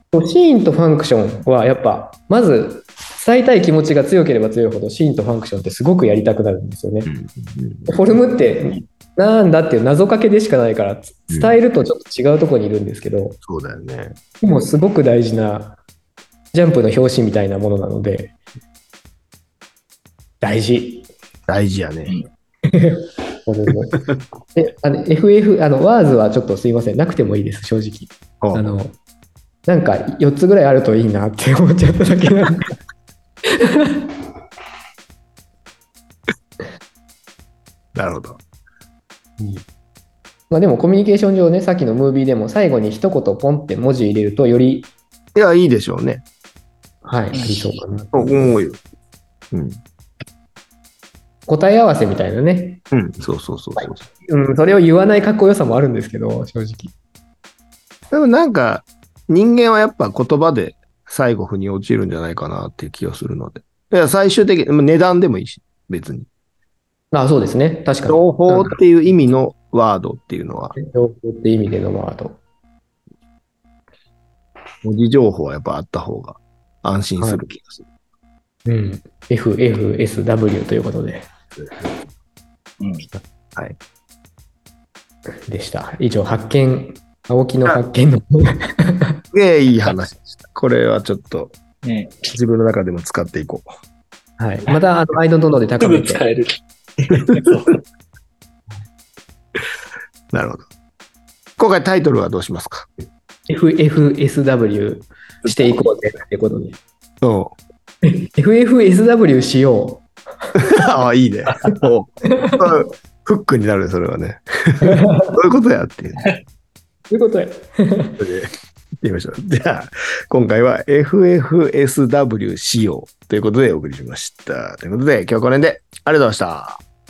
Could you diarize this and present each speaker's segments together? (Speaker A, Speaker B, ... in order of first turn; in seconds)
Speaker A: 0.1-7.1, 7.9-13.4, 14.4-15.8, 16.5-18.4, 20.4-21.1, 22.6-24.0, 24.5-29.0, 29.6-32.7, 33.5-34.1, 39.4-39.6, 40.5-44.9, 47.0-48.6, 51.5-52.8, 53.8-56.9, 67.1-68.8, 70.7-72.4, 78.7-81.3, 85.5-89.2, 94.4-96.2, 103.5-106.8, 108.0-110.0, 114.8-115.3, 117.1-118.2
Speaker B: 7.0-8.2, 11.3-11.6, 13.4-14.2, 21.5-22.1, 37.9-38.4, 45.3-46.2, 48.1-48.8, 49.5-49.8, 52.9-54.0, 58.1-66.3, 68.1-70.8, 74.8-77.9, 81.6-81.9, 89.3-91.5, 92.3-93.7, 100.3-100.7, 101.6-102.9, 107.2-107.5, 110.6-116.2, 118.2-118.5, 119.0-126.8
Speaker C: 47.3-47.8, 82.8-83.0, 91.8-92.3, 95.8-97.8